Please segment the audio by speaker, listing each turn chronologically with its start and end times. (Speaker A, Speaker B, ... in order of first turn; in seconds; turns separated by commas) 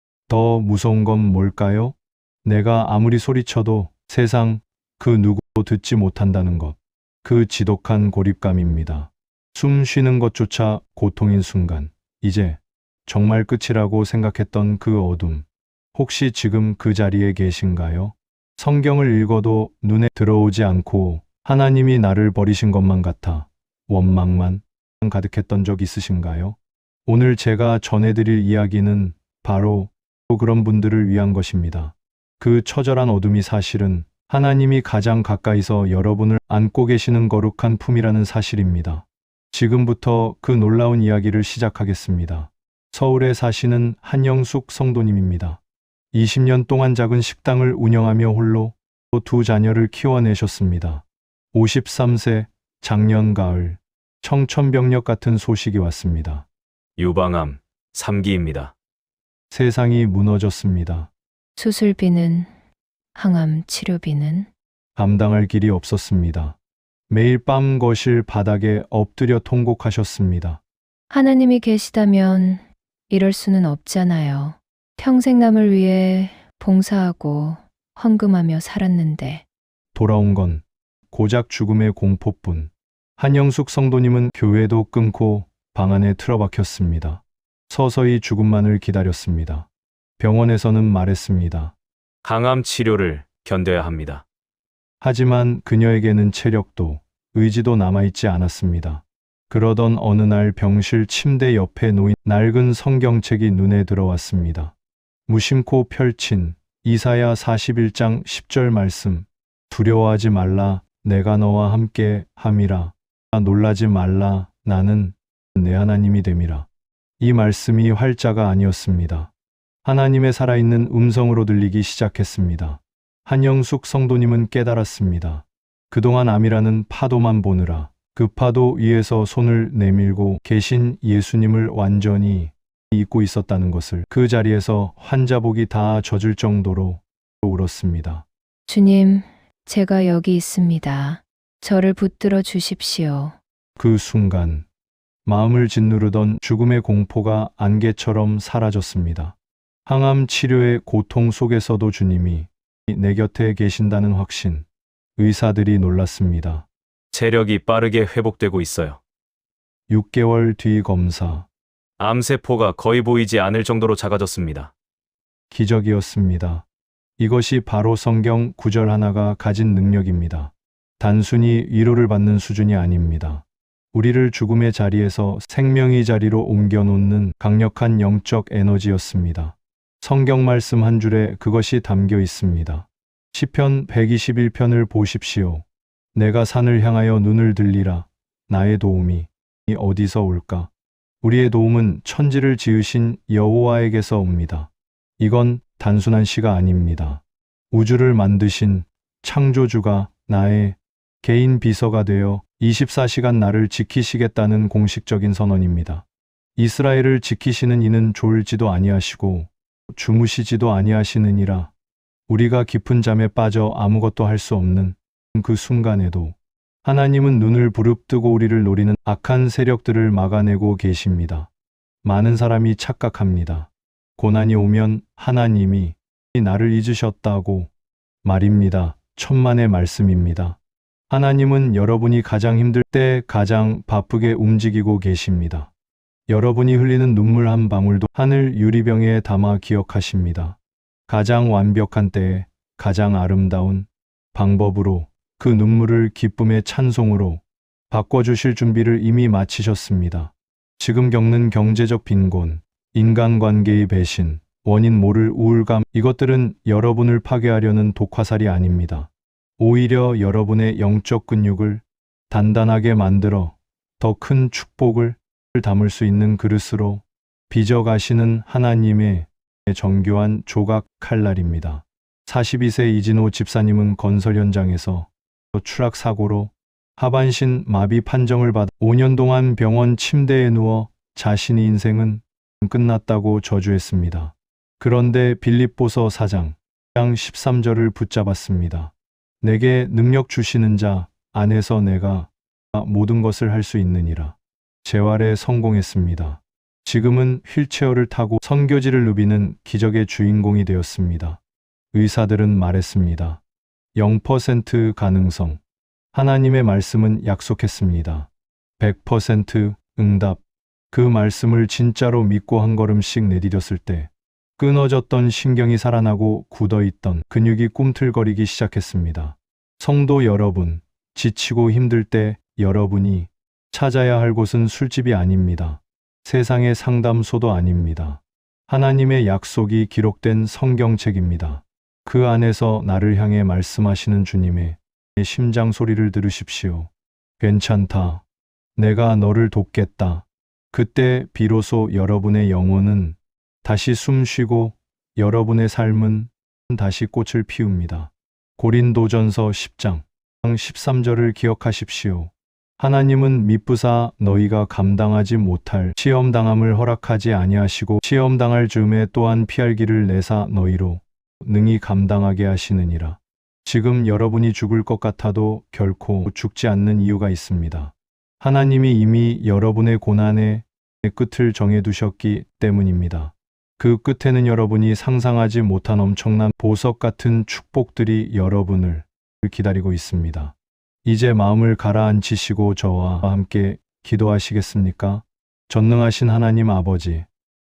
Speaker A: 0.3-45.6, Speaker A: 46.1-56.5, Speaker B: 57.0-58.7, Speaker A: 59.5-61.1, Speaker C: 61.5-62.5, Speaker C: 63.1-64.5, Speaker A: 65.0-66.6, Speaker A: 67.1-70.6, Speaker C: 71.1-79.4, Speaker A: 79.9-91.7, Speaker B: 92.2-94.2, Speaker A: 95.0-104.7, Speaker A: 105.3-116.7, Speaker A: 117.2-119.3, Speaker A: 119.8-138.2, Speaker C: 138.7-143.4, Speaker A: 143.8-144.7, Speaker A: 145.2-154.7, Speaker A: 155.2-156.7, Speaker B: 157.1-159.0, Speaker A: 159.9-161.5, Speaker B: 162.0-164.7, Speaker A: 165.5-166.7, Speaker A: 167.2-190.7, Speaker A: 191.2-211.7, Speaker A: 212.3-221.5, Speaker A: 222.0-227.7, Speaker A: 228.2-230.6, Speaker A: 231.1-235.7, Speaker A: 236.3-301.4, Speaker A: 301.9-303.4, Speaker A: 303.9-305.6, Speaker A: 306.1-338.2, Speaker A: 338.8-387.3